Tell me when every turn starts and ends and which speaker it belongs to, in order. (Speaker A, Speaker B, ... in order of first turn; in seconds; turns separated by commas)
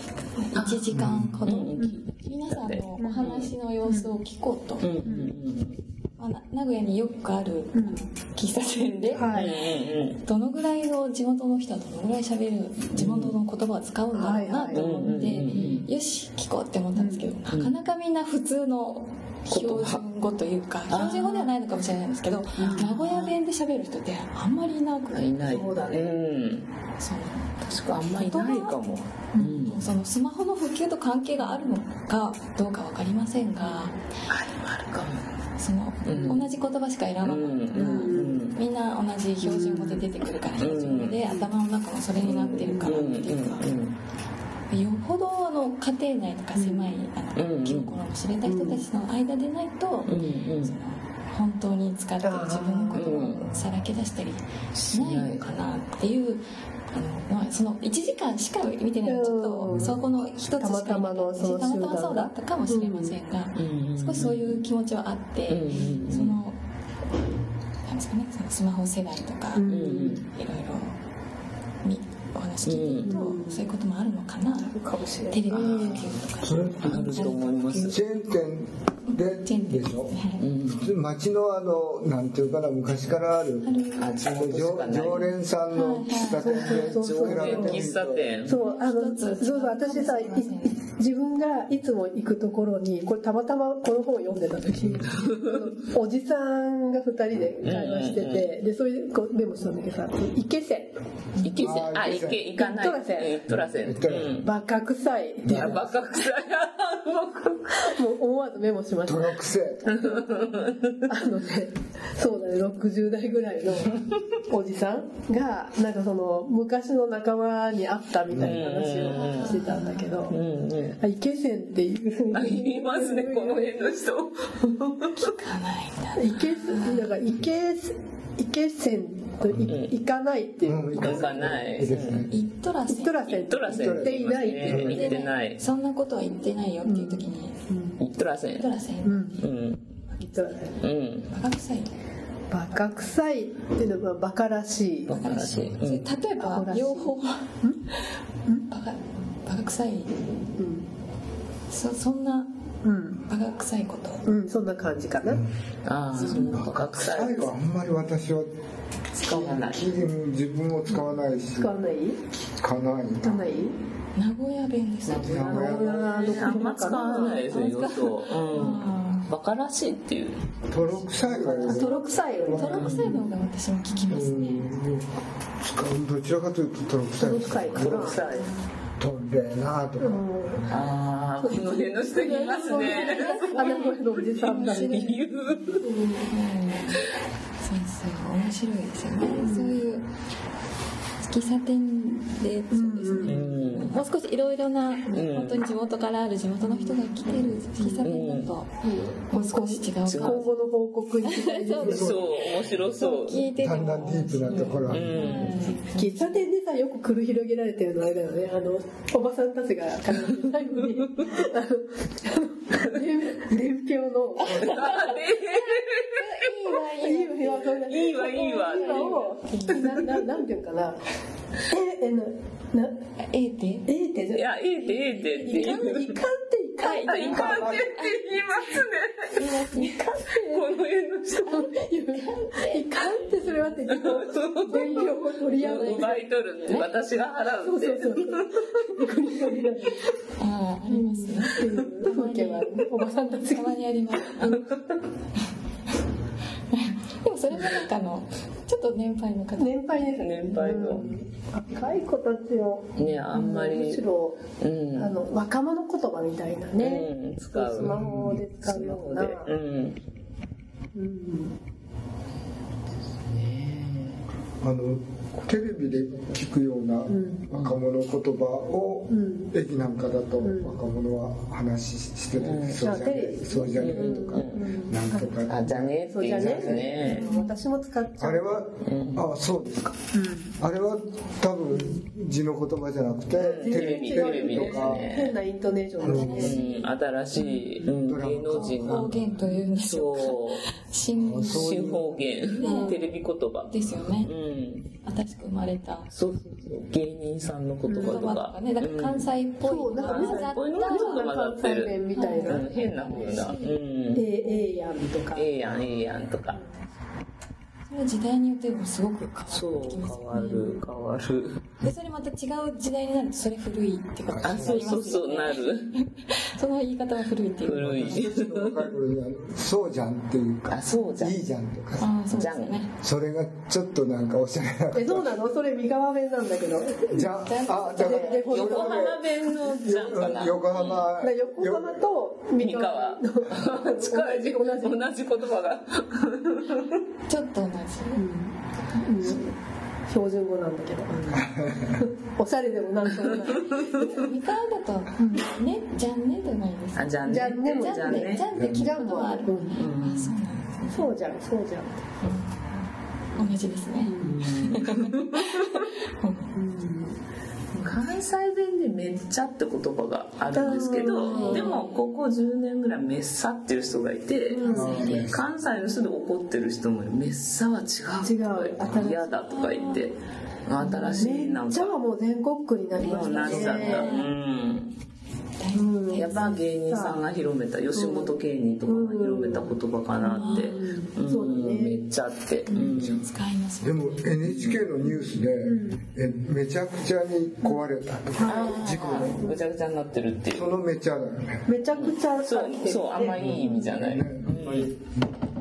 Speaker A: 0.4-4.9, Speaker B: 0.5-3.5, Speaker C: 0.9-1.4, Speaker D: 1.8-2.1, Speaker D: 3.0-4.2, Speaker B: 4.8-5.8, Speaker D: 5.0-5.3, Speaker A: 6.2-9.5, Speaker D: 7.7-8.1, Speaker D: 9.1-9.6, Speaker B: 9.2-10.2, Speaker A: 10.2-25.3, Speaker B: 12.9-13.3, Speaker D: 14.1-15.2, Speaker B: 14.7-15.9, Speaker D: 16.9-17.3, Speaker B: 17.5-17.7, Speaker B: 19.5-20.0, Speaker B: 20.9-21.5, Speaker D: 22.6-22.9, Speaker B: 22.6-23.4, Speaker B: 25.1-26.7, Speaker D: 25.5-26.2, Speaker A: 27.0-28.8, Speaker B: 27.6-29.8, Speaker D: 29.4-29.7, Speaker A: 29.6-34.0, Speaker D: 33.6-33.9, Speaker B: 34.3-35.3, Speaker A: 35.6-43.8, Speaker B: 36.0-36.5, Speaker D: 36.1-36.5, Speaker B: 37.2-38.6, Speaker D: 37.7-38.4, Speaker D: 39.4-40.1, Speaker B: 40.6-41.2, Speaker D: 41.3-41.5, Speaker B: 42.2-44.0, Speaker D: 42.6-43.0, Speaker A: 44.7-66.6, Speaker D: 46.6-47.0, Speaker B: 47.4-48.0, Speaker D: 48.5-48.8, Speaker B: 50.1-50.8, Speaker D: 52.2-53.7, Speaker B: 52.9-53.5, Speaker B: 54.7-55.5, Speaker D: 59.1-60.0, Speaker D: 60.6-63.2, Speaker B: 63.5-64.6, Speaker B: 65.5-66.4, Speaker A: 67.8-70.9, Speaker D: 69.5-70.2, Speaker B: 69.7-70.3, Speaker A: 71.8-74.8, Speaker B: 72.7-73.2, Speaker D: 73.0-73.7, Speaker D: 74.6-76.1, Speaker A: 75.3-78.0, Speaker B: 75.5-76.2, Speaker C: 76.4-77.3, Speaker B: 76.8-78.0, Speaker C: 77.8-80.2, Speaker A: 79.1-80.5, Speaker B: 80.4-80.9, Speaker C: 80.7-83.7, Speaker A: 83.6-84.1, Speaker B: 84.0-85.3, Speaker C: 84.3-88.3, Speaker A: 85.7-86.7, Speaker D: 86.4-87.9, Speaker B: 86.4-88.6, Speaker D: 88.4-101.0, Speaker A: 88.6-90.8, Speaker C: 94.8-95.1, Speaker B: 95.2-95.5, Speaker B: 97.6-98.5, Speaker B: 101.4-104.5, Speaker C: 101.6-102.4, Speaker D: 102.5-103.5, Speaker C: 103.7-104.3, Speaker D: 104.3-105.8, Speaker C: 105.4-105.9, Speaker B: 105.4-108.0, Speaker D: 107.8-110.6, Speaker C: 109.1-109.9, Speaker B: 109.9-111.1, Speaker D: 111.1-120.4, Speaker C: 118.3-118.6, Speaker B: 118.4-119.6, Speaker A: 119.0-120.2, Speaker B: 120.3-121.0, Speaker D: 121.0-124.0, Speaker B: 122.3-125.2, Speaker A: 125.2-127.2, Speaker D: 126.2-131.6, Speaker C: 129.5-129.7, Speaker B: 129.7-130.0, Speaker C: 130.7-132.3, Speaker B: 131.0-132.3, Speaker A: 132.3-133.3, Speaker D: 132.9-135.2, Speaker B: 133.2-135.6, Speaker C: 133.7-135.2, Speaker A: 134.9-137.5, Speaker D: 136.8-138.0, Speaker B: 138.0-138.7, Speaker A: 138.6-139.3, Speaker D: 139.0-139.4, Speaker B: 139.4-139.8, Speaker D: 140.2-140.8, Speaker B: 140.8-141.3, Speaker A: 141.3-141.9, Speaker D: 142.5-145.1, Speaker B: 145.1-146.1, Speaker A: 145.1-147.5, Speaker D: 146.4-147.8, Speaker A: 148.7-150.2, Speaker D: 150.6-150.9, Speaker A: 151.7-152.5, Speaker D: 152.8-153.2, Speaker A: 153.2-154.3, Speaker D: 154.3-155.4, Speaker C: 155.2-155.5, Speaker B: 155.8-157.5, Speaker A: 156.1-156.7, Speaker C: 156.2-158.5, Speaker B: 159.2-160.0, Speaker C: 159.2-161.7, Speaker D: 161.6-162.2, Speaker C: 162.6-163.5, Speaker D: 163.2-163.8, Speaker A: 164.2-165.8, Speaker B: 165.1-170.7, Speaker C: 165.2-166.0, Speaker D: 165.5-167.5, Speaker A: 166.4-169.3, Speaker C: 170.7-173.2, Speaker D: 171.2-173.2, Speaker A: 171.4-174.7, Speaker B: 172.7-173.2, Speaker C: 174.1-175.1, Speaker C: 175.6-178.2, Speaker D: 177.2-178.2, Speaker B: 177.7-178.5, Speaker C: 179.0-180.7, Speaker D: 180.0-180.7, Speaker B: 180.7-185.8, Speaker D: 181.4-185.2, Speaker A: 182.6-185.2, Speaker D: 185.8-186.3, Speaker A: 186.3-187.0, Speaker A: 187.6-190.1, Speaker D: 189.4-189.8, Speaker A: 191.2-198.7, Speaker D: 192.7-193.5, Speaker B: 193.2-193.9, Speaker B: 195.1-195.6, Speaker D: 196.6-198.0, Speaker B: 198.0-198.5, Speaker D: 198.8-202.3, Speaker A: 199.3-200.5, Speaker B: 200.1-200.5, Speaker A: 201.2-202.2, Speaker C: 201.8-202.2, Speaker B: 201.8-203.5, Speaker A: 202.8-206.5, Speaker C: 203.6-205.1, Speaker B: 204.6-205.8, Speaker D: 205.9-215.1, Speaker B: 214.5-216.5, Speaker A: 214.9-220.2, Speaker D: 216.7-221.0, Speaker B: 217.8-219.2, Speaker D: 221.7-223.0, Speaker A: 223.2-223.9, Speaker D: 223.9-227.8, Speaker B: 224.3-226.2, Speaker A: 224.8-225.9, Speaker A: 226.8-230.5, Speaker B: 226.9-231.6, Speaker C: 227.3-228.0, Speaker D: 229.9-230.7, Speaker A: 231.5-234.1, Speaker D: 231.5-236.3, Speaker B: 233.9-239.6, Speaker D: 237.5-240.2, Speaker A: 240.4-244.6, Speaker D: 240.9-244.7, Speaker B: 244.4-244.9, Speaker A: 246.7-249.8, Speaker D: 249.6-254.4, Speaker B: 250.1-251.1, Speaker B: 253.0-254.0, Speaker B: 254.6-255.2, Speaker D: 255.0-259.5, Speaker B: 256.8-260.0, Speaker C: 257.8-258.4, Speaker D: 260.9-261.6, Speaker B: 263.3-264.2, Speaker C: 264.6-277.1, Speaker D: 267.1-267.5, Speaker B: 267.5-267.8, Speaker D: 269.1-269.5, Speaker D: 270.4-270.8, Speaker B: 272.4-272.9, Speaker D: 272.8-275.4, Speaker B: 273.8-274.7, Speaker B: 275.5-277.3, Speaker D: 276.1-278.6, Speaker A: 277.0-277.7, Speaker C: 278.2-280.0, Speaker B: 278.8-279.3, Speaker D: 280.1-280.6, Speaker C: 280.6-285.1, Speaker D: 281.7-282.1, Speaker B: 283.4-285.4, Speaker D: 283.4-286.6, Speaker C: 286.0-286.6, Speaker A: 286.0-287.8, Speaker B: 286.4-289.2, Speaker C: 287.9-289.3, Speaker A: 288.5-291.8, Speaker B: 289.8-290.7, Speaker C: 291.1-292.2, Speaker B: 291.3-294.9, Speaker A: 292.4-293.0, Speaker D: 292.6-293.0, Speaker A: 293.7-294.3, Speaker A: 295.0-296.1, Speaker B: 296.1-299.4, Speaker D: 297.9-298.4, Speaker A: 298.0-301.3, Speaker D: 299.6-302.7, Speaker B: 300.0-304.3, Speaker A: 302.1-303.8, Speaker D: 304.1-305.9, Speaker A: 304.4-304.9, Speaker B: 305.3-306.6, Speaker A: 307.9-310.8, Speaker B: 309.5-311.7, Speaker A: 311.8-318.2, Speaker C: 314.3-314.9, Speaker B: 314.4-315.9, Speaker B: 317.6-318.9, Speaker C: 317.7-322.2, Speaker B: 320.7-321.4, Speaker A: 322.0-322.9, Speaker B: 322.3-322.8, Speaker C: 323.0-325.3, Speaker D: 324.9-327.3, Speaker C: 327.1-332.1, Speaker A: 327.4-328.5, Speaker D: 328.0-329.2, Speaker B: 328.5-331.1, Speaker D: 331.2-335.1, Speaker B: 332.6-337.0, Speaker A: 337.3-338.2, Speaker D: 338.2-339.6, Speaker D: 340.1-344.3, Speaker B: 341.1-341.4, Speaker C: 341.3-342.1, Speaker A: 343.9-351.1, Speaker D: 345.2-345.4, Speaker B: 346.9-348.5, Speaker D: 347.2-349.8, Speaker C: 348.6-348.9, Speaker B: 349.8-350.4, Speaker D: 350.9-352.0, Speaker A: 352.2-356.5, Speaker D: 353.4-354.4, Speaker B: 354.2-355.9, Speaker D: 356.6-357.2, Speaker B: 357.7-372.0, Speaker D: 360.5-361.8, Speaker A: 361.1-362.0, Speaker D: 364.5-365.2, Speaker A: 364.6-365.3, Speaker C: 364.7-365.4, Speaker D: 368.2-369.4, Speaker A: 369.5-370.1, Speaker A: 370.8-371.3, Speaker D: 371.2-374.1, Speaker B: 373.0-374.9, Speaker A: 373.1-374.3, Speaker A: 375.6-376.6, Speaker D: 375.7-377.2, Speaker B: 376.1-383.2, Speaker D: 377.9-382.1, Speaker A: 380.2-380.8, Speaker D: 382.7-383.1, Speaker C: 382.9-383.3, Speaker A: 382.9-384.3, Speaker C: 383.8-389.4, Speaker B: 384.4-384.8, Speaker D: 384.6-386.0, Speaker D: 387.6-389.6, Speaker B: 388.4-390.7, Speaker C: 390.5-391.7, Speaker D: 391.7-394.0, Speaker B: 391.9-394.9, Speaker C: 393.4-395.5